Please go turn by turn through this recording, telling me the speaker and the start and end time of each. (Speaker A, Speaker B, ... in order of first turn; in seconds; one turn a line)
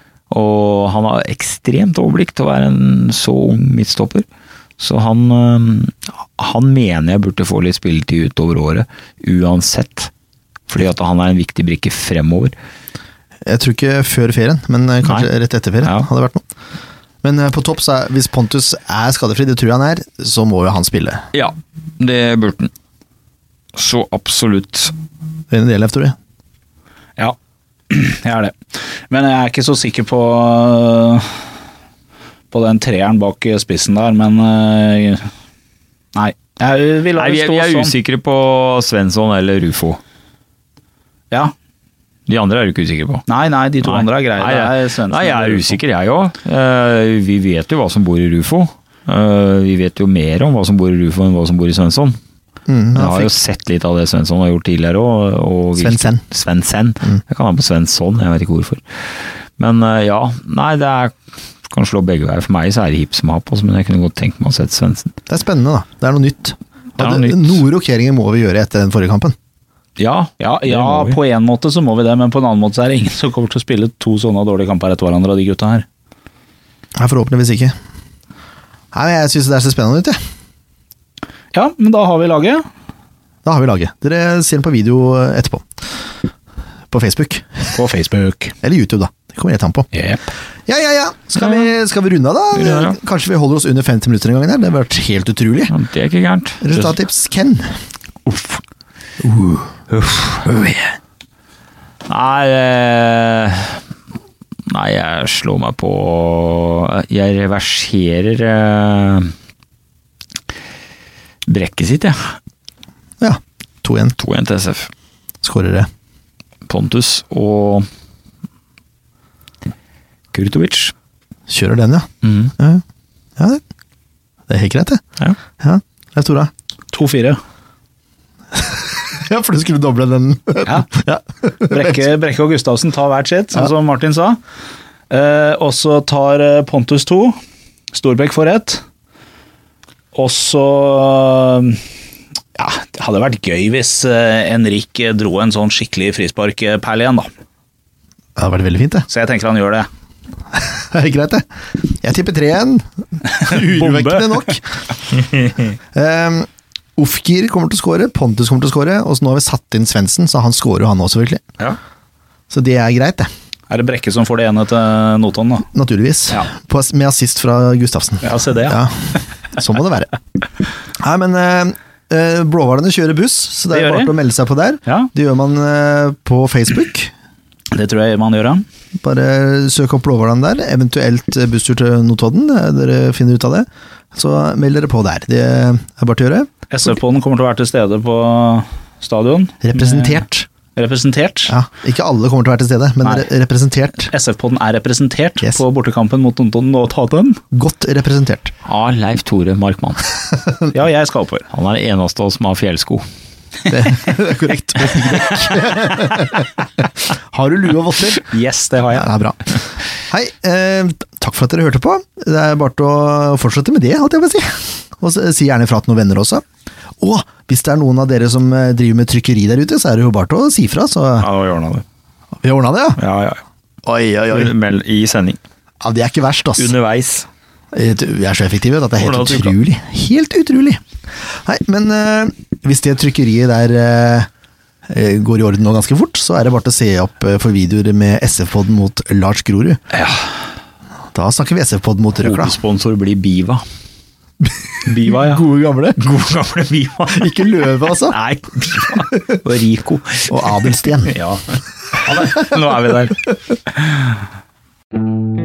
Speaker A: 0.3-4.2
Speaker A: 4.8-10.1
Speaker A: 10.7-12.5
Speaker B: 13.4-16.4
Speaker B: 17.2-21.2
Speaker A: 21.3-22.7
Speaker A: 23.7-24.9
Speaker B: 25.5-26.1
Speaker C: 27.9-28.6
Speaker C: 29.1-31.3
Speaker C: 32.5-35.3
Speaker C: 36.1-37.9
Speaker A: 37.1-40.0
Speaker A: 42.3-43.2
Speaker C: 43.3-45.8
Speaker A: 43.8-52.2
Speaker B: 52.7-53.3
Speaker A: 52.9-61.1
Speaker B: 55.8-56.2
Speaker A: 61.6-65.1
Speaker B: 65.3-69.3
Speaker A: 67.0-67.6
Speaker A: 70.0-71.2
Speaker C: 70.4-75.8
Speaker B: 77.0-77.7
Speaker B: 78.9-80.2
Speaker C: 81.5-82.6
Speaker B: 83.4-85.7
Speaker B: 86.9-87.7
Speaker C: 87.7-88.5
Speaker B: 88.6-89.9
Speaker C: 89.9-90.2
Speaker B: 90.7-95.7
Speaker A: 92.5-93.0
Speaker A: 95.7-96.9
Speaker B: 96.6-97.8
Speaker B: 99.2-100.9
Speaker A: 102.1-103.8
Speaker A: 104.7-109.3
Speaker A: 111.5-112.3
Speaker B: 113.2-114.2
Speaker A: 114.2-114.9
Speaker B: 115.4-115.9
Speaker A: 116.7-117.8
Speaker A: 120.3-120.9
Speaker B: 121.5-122.8
Speaker A: 122.2-122.5
Speaker B: 123.4-123.6
Speaker B: 124.5-125.0
Speaker B: 125.6-126.5
Speaker C: 126.9-127.4
Speaker B: 128.5-132.0
Speaker C: 130.6-130.9
Speaker C: 131.7-134.4
Speaker C: 135.1-137.4
Speaker C: 137.9-138.8
Speaker C: 140.1-141.8
Speaker C: 142.6-147.3
Speaker B: 148.3-149.1
Speaker C: 149.1-149.9
Speaker B: 150.5-154.6
Speaker C: 153.3-154.4
Speaker A: 155.1-155.8
Speaker B: 155.9-161.4
Speaker B: 162.5-163.3
Speaker C: 163.7-165.7
Speaker B: 165.7-170.1
Speaker C: 168.2-168.8
Speaker B: 171.0-177.1
Speaker C: 173.7-174.1
Speaker C: 177.7-178.6
Speaker B: 179.0-186.9
Speaker C: 186.7-190.2
Speaker B: 189.6-190.5
Speaker C: 190.8-191.5
Speaker B: 191.5-194.1
Speaker C: 194.1-197.4
Speaker B: 197.5-198.5
Speaker A: 198.6-200.1
Speaker B: 200.3-200.7
Speaker C: 200.7-201.5
Speaker A: 201.5-203.0
Speaker B: 203.7-208.2
Speaker C: 208.3-209.0
Speaker A: 208.7-209.1
Speaker B: 208.9-209.4
Speaker B: 210.1-216.4
Speaker B: 217.0-221.3
Speaker A: 221.2-221.8
Speaker B: 222.4-223.0
Speaker A: 223.0-223.4
Speaker B: 223.8-224.5
Speaker A: 224.3-225.4
Speaker B: 225.8-226.7
Speaker A: 226.6-227.3
Speaker B: 227.7-230.8
Speaker A: 229.0-229.5
Speaker B: 231.4-234.3
Speaker B: 234.9-239.8
Speaker A: 239.9-240.3
Speaker B: 241.1-242.5
Speaker A: 242.2-243.6
Speaker C: 244.8-245.4
Speaker B: 245.1-246.0
Speaker A: 246.0-247.3
Speaker B: 247.1-248.2
Speaker A: 248.0-251.4
Speaker B: 250.3-251.1
Speaker A: 252.0-254.0